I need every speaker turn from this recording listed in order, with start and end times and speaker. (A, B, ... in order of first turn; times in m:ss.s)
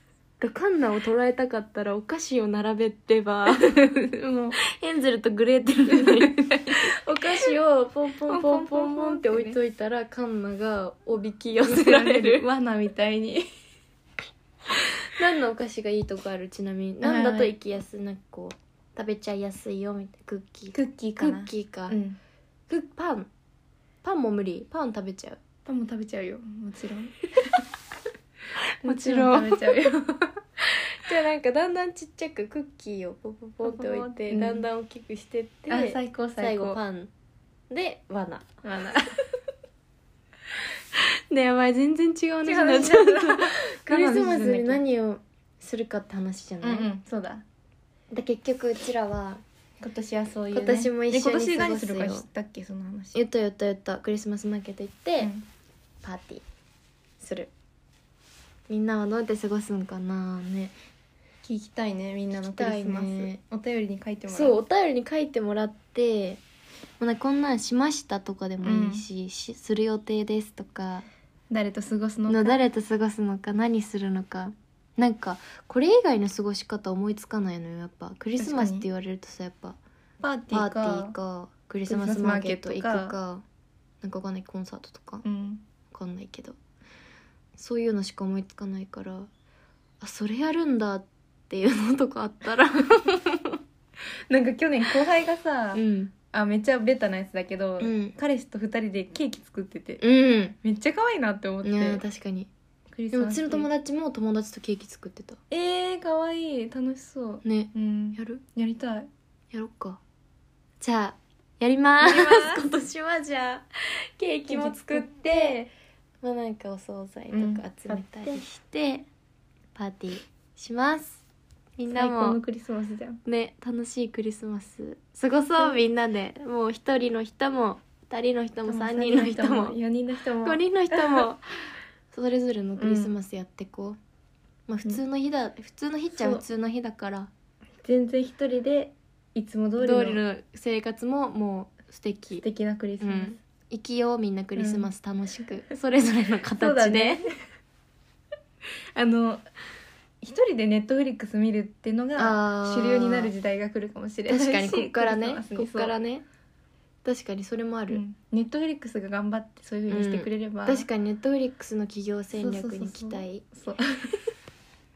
0:00.4-0:03.8 A
0:03.5-0:04.6 B
0:04.6-0:12.4 A
0:05.9-0:07.5 B
0:08.3-0:09.6 B
0:11.6-0:13.5 B
0:15.1-0:22.0 A
0:17.0-0:17.5 B
0:20.7-0:22.2 B
0:22.7-0:23.3 A
0:24.0-0:25.4 A
0:25.6-0:27.6 B
0:28.8-0:29.7 A
0:28.8-0:30.4 B
0:30.7-0:37.1 A
0:33.6-0:34.6 B
0:35.7-0:36.8 B
0:37.7-0:38.8 A
0:38.6-0:39.2 B
0:41.3-0:46.9 A
0:42.4-0:44.8 B
0:46.6-0:47.4 B
0:48.1-0:49.4 A
0:49.8-0:53.2 B
0:50.5-0:52.2 A
0:53.1-0:55.3 A
0:55.2-0:55.4 B
0:56.0-0:56.4 A
0:57.2-0:57.5 A
0:58.7-1:00.8 A
1:01.4-1:04.6 B
1:02.3-1:03.4 A
1:04.3-1:06.4 A
1:07.0-1:11.0 A
1:08.6-1:09.0 B
1:11.5-1:12.6 B
1:12.3-1:19.8 A
1:18.4-1:18.9 B
1:20.2-1:21.1 B
1:20.5-1:23.4 A
1:21.9-1:23.2 B
1:24.0-1:25.2 A
1:25.2-1:25.6 B
1:25.9-1:26.6 A
1:27.6-1:29.3 A
1:30.0-1:33.6 A
1:34.3-1:40.0 B
1:35.7-1:36.1 A
1:37.8-1:38.1 A
1:40.0-1:40.6 A
1:40.6-1:42.0 B
1:41.6-1:42.5 A
1:42.9-1:43.7 B
1:43.1-1:45.4 A
1:45.5-1:49.1 B
1:47.4-1:48.4 A
1:49.5-1:50.0 A
1:50.8-1:53.6 A
1:52.0-1:52.6 B
1:54.2-1:55.6 A
1:54.5-1:55.7 B
1:56.2-1:59.1 A
1:57.3-1:58.4 B
1:59.7-2:01.2 A
2:01.8-2:02.4 A
2:01.9-2:03.2 B
2:03.2-2:09.8 A
2:08.6-2:11.3 B
2:10.4-2:11.5 A
2:12.1-2:14.0 A
2:12.8-2:13.1 B
2:14.7-2:17.3 A
2:16.1-2:16.4 B
2:17.8-2:20.2 B
2:19.8-2:22.4 A
2:22.4-2:23.4 B
2:23.0-2:27.2 A
2:24.6-2:24.9 B
2:26.6-2:27.3 B
2:28.9-2:29.4 B
2:30.2-2:35.9 B
2:32.2-2:33.3 A
2:34.3-2:36.2 A
2:37.0-2:38.0 A
2:37.9-2:40.9 B
2:39.9-2:43.4 A
2:42.3-2:44.2 B